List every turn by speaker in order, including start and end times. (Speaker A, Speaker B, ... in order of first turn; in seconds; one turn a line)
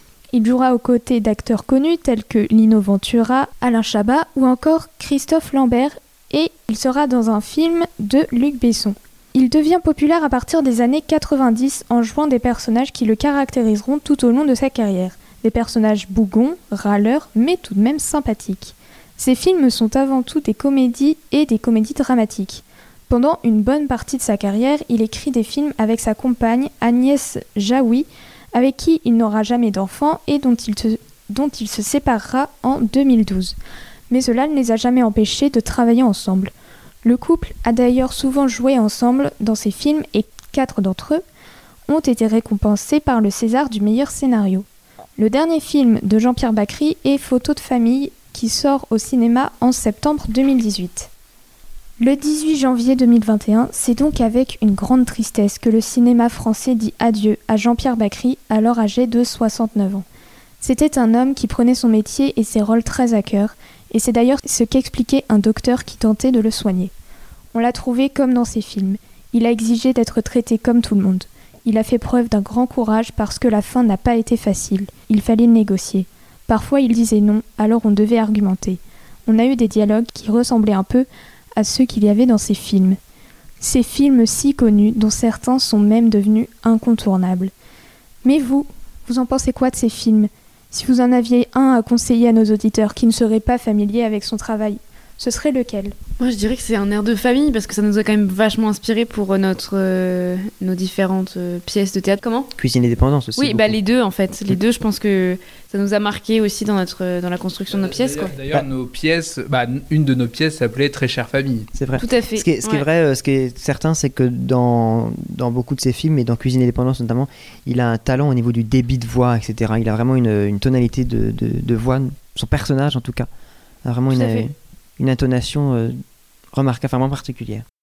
Speaker A: 0.3-33.5
Speaker A: 34.1-36.5
Speaker A: 37.0-41.2
Speaker A: 41.9-44.6
Speaker A: 45.2-51.1
Speaker A: 52.0-60.0
Speaker A: 60.6-66.9
Speaker A: 67.5-83.0
Speaker A: 83.6-87.5
Speaker A: 88.2-95.9
Speaker B: 96.2-102.5
Speaker C: 102.5-103.8
Speaker B: 103.4-108.3
Speaker D: 107.7-111.7
Speaker C: 111.7-123.3
Speaker B: 112.0-112.8
Speaker C: 123.8-126.0
Speaker B: 124.1-124.5
Speaker C: 126.5-127.6